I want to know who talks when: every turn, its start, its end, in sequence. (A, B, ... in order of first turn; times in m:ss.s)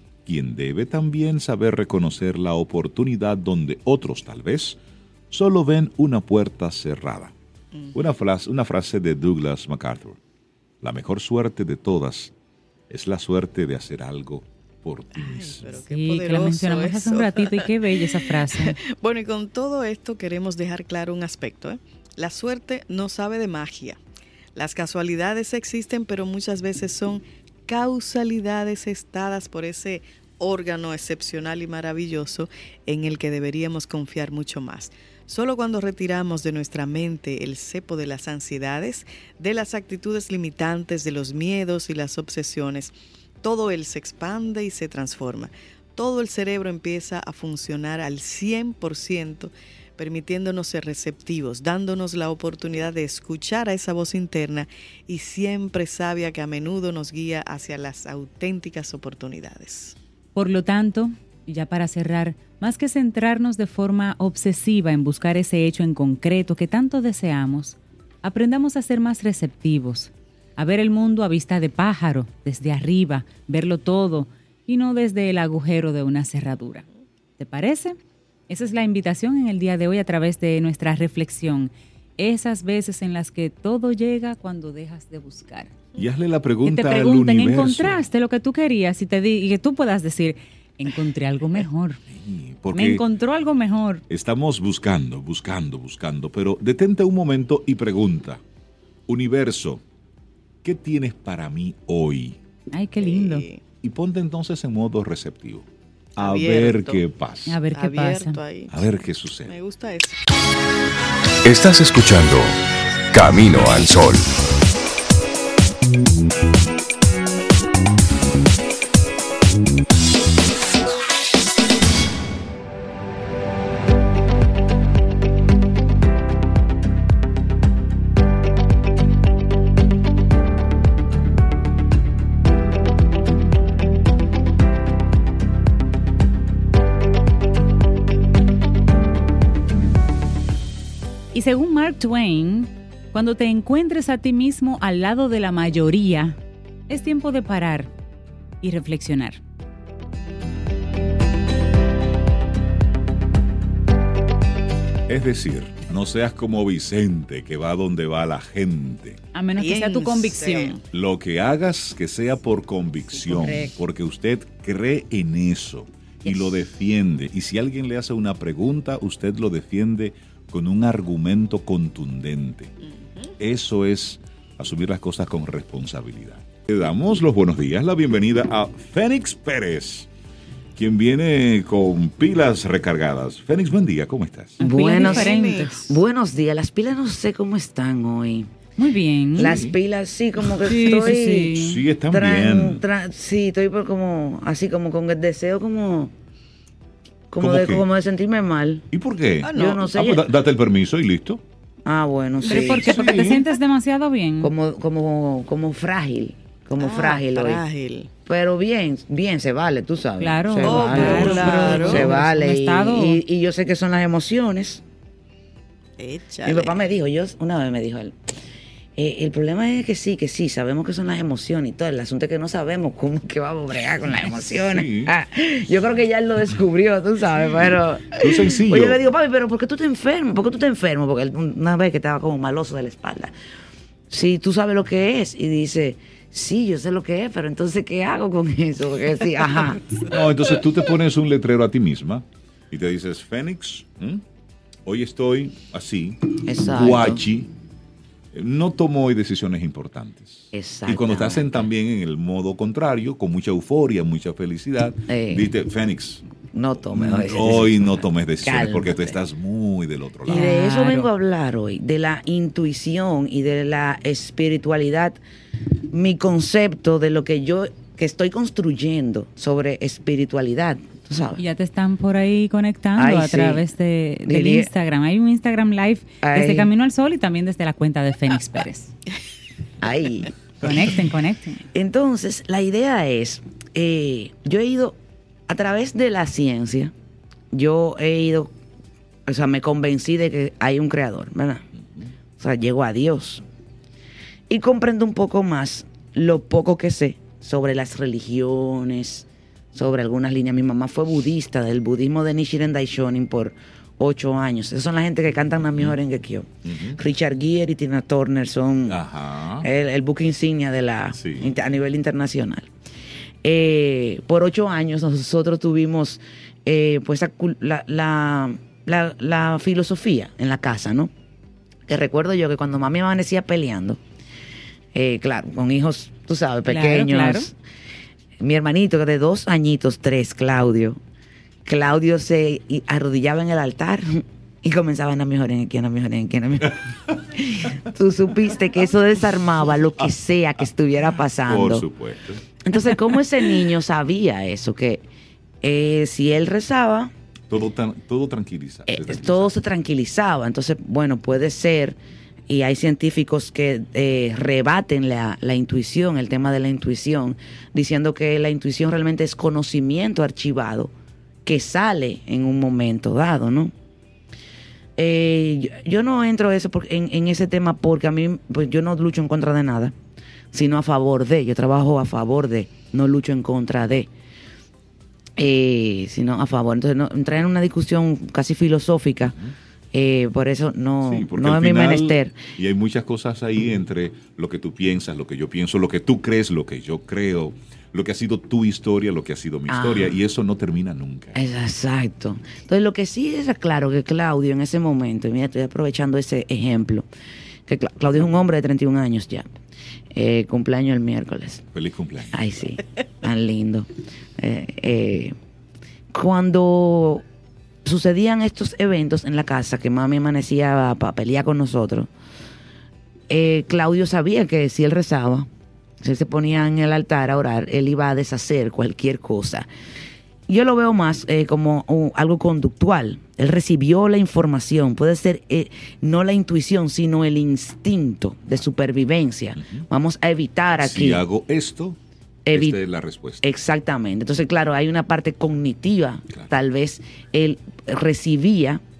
0:00.2-0:04.8 A
0:05.3-0:07.3 A
0:07.9-0:10.2 A
0:10.8-0:12.3 A
0:12.9-0:15.8 A
0:15.2-0:17.8 B
0:15.7-0:18.8 C
0:18.5-0:24.0 B
0:24.6-1:00.0 B
1:00.4-1:16.9 C
1:17.4-1:25.7 C
1:26.0-1:28.0 A
1:26.6-1:32.0 C
1:32.1-1:33.0 A
1:32.7-1:34.0 C
1:34.1-1:38.4 A
1:39.1-1:39.8 A
1:40.6-1:42.4 A
1:42.7-1:43.5 C
1:43.0-1:43.6 B
1:43.8-1:45.7 A
1:46.2-1:47.0 B
1:46.2-1:47.6 A
1:47.5-1:48.4 C
1:47.7-1:48.9 B
1:48.7-1:49.6 A
1:49.4-1:50.2 B
1:51.4-1:52.6 D
1:53.1-1:54.3 D
2:21.3-2:26.4 C
2:26.9-2:27.9 C
2:28.6-2:29.4 C
2:35.1-2:39.2 A
2:39.3-2:40.8 C
2:39.6-2:40.8 B
2:40.9-2:52.7 A
2:43.3-2:43.6 E
2:53.4-3:00.1 A
3:00.8-3:04.6 A
3:04.6-3:05.8 C
3:04.6-3:08.5 E
3:04.9-3:06.0 B
3:08.8-3:09.7 C
3:09.4-3:16.1 E
3:09.4-3:09.7 A
3:10.6-3:11.8 C
3:11.5-3:12.8 A
3:17.3-3:18.9 E
3:17.4-3:17.8 A
3:18.9-3:21.4 A
3:19.4-3:19.8 B
3:19.5-3:20.3 E
3:21.8-3:23.3 E
3:22.4-3:24.5 C
3:22.5-3:23.4 A
3:24.4-3:27.6 E
3:26.8-3:28.1 B
3:28.2-3:34.8 E
3:30.2-3:33.2 C
3:30.6-3:32.1 B
3:36.0-3:36.8 B
3:36.4-3:38.2 E
3:39.0-3:53.3 E
3:44.6-3:45.1 A
3:48.1-3:49.0 A
3:54.1-4:00.0 E
4:00.1-4:04.2 A
4:04.9-4:07.5 A
4:06.4-4:07.2 E
4:08.3-4:16.2 A
4:10.5-4:11.6 E
4:15.1-4:15.5 E
4:16.5-4:19.2 E
4:16.9-4:20.6 A
4:20.3-4:25.2 E
4:20.3-4:21.1 C
4:25.9-4:31.4 E
4:31.4-4:38.9 C
4:33.0-4:33.6 E
4:34.3-4:34.7 E
4:36.2-4:36.7 E
4:39.8-4:40.3 E
4:40.6-4:41.6 C
4:41.7-4:45.0 E
4:45.5-4:46.9 E
4:47.5-4:48.5 E
4:49.3-4:51.7 E
4:52.4-4:53.4 E
4:54.5-5:09.0 E
5:06.7-5:07.0 A
5:08.9-5:09.7 A
5:09.6-5:12.7 E
5:11.2-5:11.5 A
5:13.4-5:21.1 E
5:21.9-5:24.0 E
5:24.9-5:27.6 E
5:26.6-5:27.5 C
5:28.4-5:31.0 E
5:31.6-5:41.9 E
5:41.5-5:42.5 A
5:42.6-5:45.0 E
5:45.6-5:47.1 E
5:47.5-5:49.6 A
5:48.9-6:00.9 E
6:01.4-6:03.7 E
6:05.0-6:10.0 E
6:10.5-6:14.1 E
6:15.4-6:19.4 E
6:19.9-6:22.5 E
6:21.0-6:31.4 A
6:29.7-6:30.2 E
6:31.3-6:37.1 E
6:37.7-6:39.5 E
6:40.1-6:41.6 E
6:41.7-6:42.4 A
6:42.3-6:45.4 E
6:46.1-6:47.2 E
6:47.8-6:52.1 E
6:53.3-6:55.5 E
6:56.0-6:59.7 E
7:00.5-7:11.2 E
7:10.8-7:12.0 A
7:12.5-7:12.8 E
7:12.5-7:13.4 A
7:13.4-7:18.8 E